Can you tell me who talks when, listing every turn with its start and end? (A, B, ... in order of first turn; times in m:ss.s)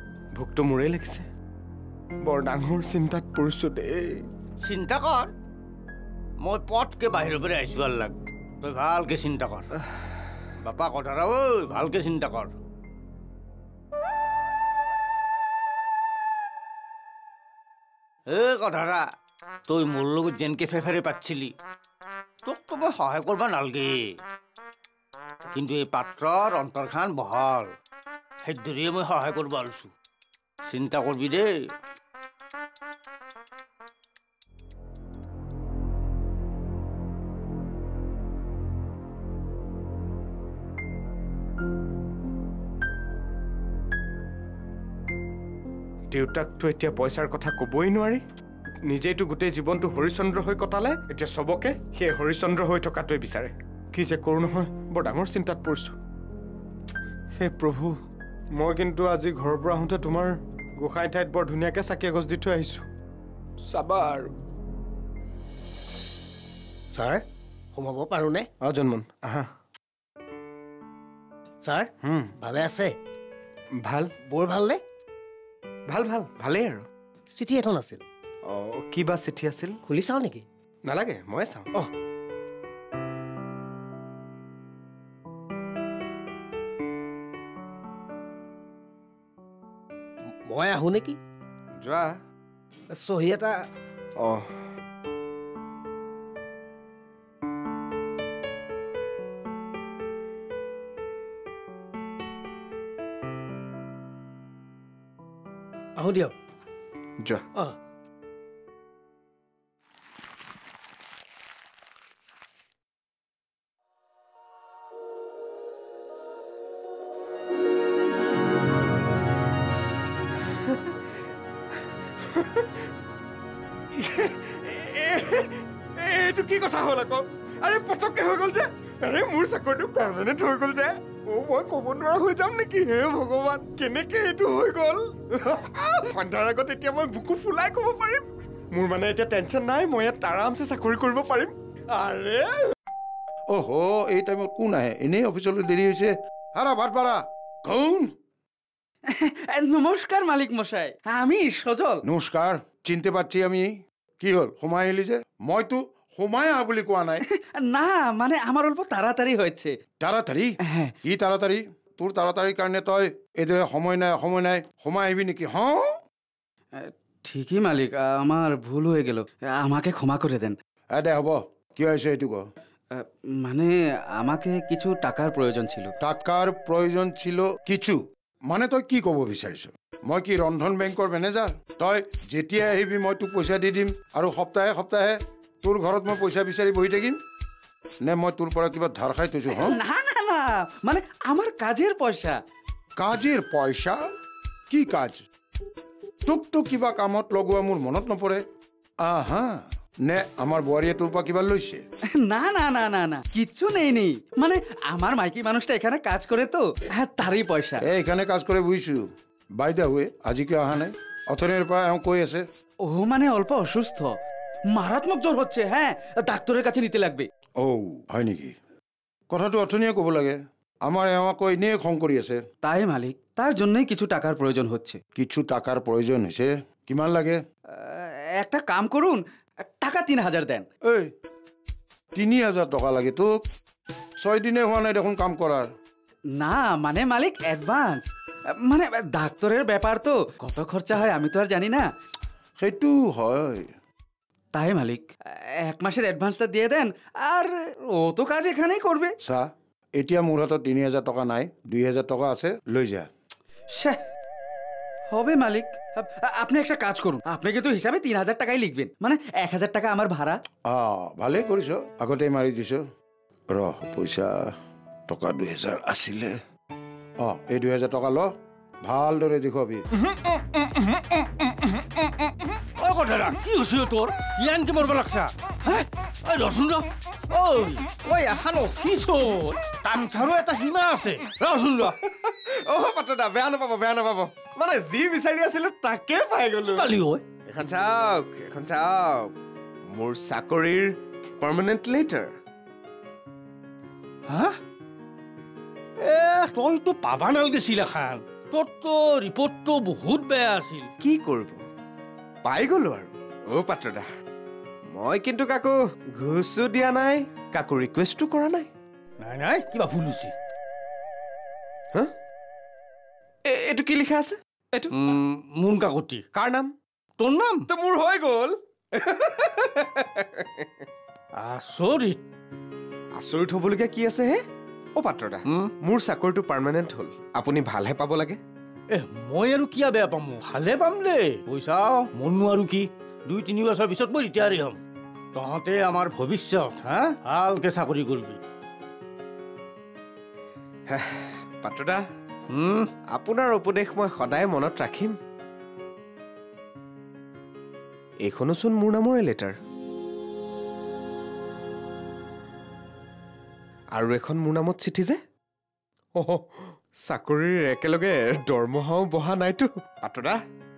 0:00.4-0:01.3 A
0:02.2-0:04.2 A
0:04.6-0:05.3 B
0:06.4-0:09.7 B
0:10.6-0:12.5 B
0:18.3-0:19.0 B
0:19.7-0:21.5 B
0:22.4-0:24.0 B
0:25.5-0:27.7 B
0:28.4-0:29.9 B
0:30.7-0:31.5 B
0:46.1-0:48.2 A
0:48.9-0:56.0 A
0:57.4-0:57.9 A
0:58.6-1:02.8 A
1:03.7-1:04.3 A
1:06.9-1:07.2 C
1:07.8-1:08.5 C
1:08.6-1:09.5 A
1:11.6-1:11.9 C
1:12.0-1:12.3 A
1:12.4-1:12.9 C
1:13.8-1:14.1 A
1:14.3-1:14.8 C
1:15.9-1:16.9 A
1:17.3-1:18.0 C
1:18.4-1:19.8 A
1:19.9-1:20.4 C
1:20.8-1:21.8 A
1:30.5-1:31.2 C
1:31.8-1:32.2 A
1:32.9-1:33.5 C
1:34.2-1:34.5 A
1:46.0-1:46.3 C
2:02.2-2:02.7 A
2:03.9-2:22.4 A
2:23.5-2:28.1 D
2:29.1-2:32.0 E
2:32.0-2:33.7 D
2:34.2-2:37.2 D
2:37.3-2:39.8 E
2:40.0-2:40.5 D
2:40.7-2:41.0 E
2:41.1-2:45.8 D
2:46.8-2:50.6 E
2:50.9-2:52.4 D
2:52.9-2:55.9 E
2:56.0-3:07.2 D
3:08.0-3:09.8 D
3:09.5-3:12.4 E
3:13.0-3:14.0 D
3:14.7-3:15.2 D
3:16.3-3:18.4 D
3:19.0-3:21.8 D
3:22.2-3:27.8 E
3:27.8-3:29.0 D
3:29.6-3:32.4 D
3:32.9-3:34.2 E
3:34.7-3:37.3 E
3:37.6-3:38.5 D
3:39.3-3:42.4 D
3:42.6-3:45.0 E
3:45.2-3:47.4 D
3:47.8-3:50.6 E
3:52.2-3:53.3 D
3:54.2-3:55.7 D
3:56.4-3:58.1 E
3:58.6-4:01.8 E
4:02.6-4:03.7 D
4:04.5-4:05.1 E
4:05.6-4:09.2 E
4:09.2-4:13.1 D
4:13.7-4:14.0 E
4:15.1-4:20.4 E
4:20.7-4:22.8 D
4:23.5-4:24.5 D
4:25.1-4:26.4 D
4:27.2-4:28.3 D
4:28.8-4:29.8 D
4:32.8-4:42.0 B
4:42.4-4:46.9 A
4:46.7-4:47.3 B
4:47.5-4:49.3 A
4:49.9-4:52.3 A
4:54.3-4:54.6 B
4:56.0-5:00.9 B
5:01.0-5:01.6 A
5:02.4-5:04.1 A
5:04.9-5:08.7 A
5:09.2-5:10.3 B
5:13.5-5:14.9 A
5:14.9-5:16.2 B
5:16.3-5:16.7 A
5:17.2-5:17.6 B
5:17.7-5:20.7 A
5:21.4-5:22.2 B
5:23.2-5:24.4 A
5:25.0-5:28.4 A
5:28.9-5:34.8 B
5:35.3-5:38.4 B
5:40.9-5:42.0 A
5:42.5-5:42.9 B
5:43.1-5:45.2 A
5:48.2-5:49.5 A
5:53.9-5:55.2 A
5:56.2-5:56.4 A
5:57.0-6:00.4 A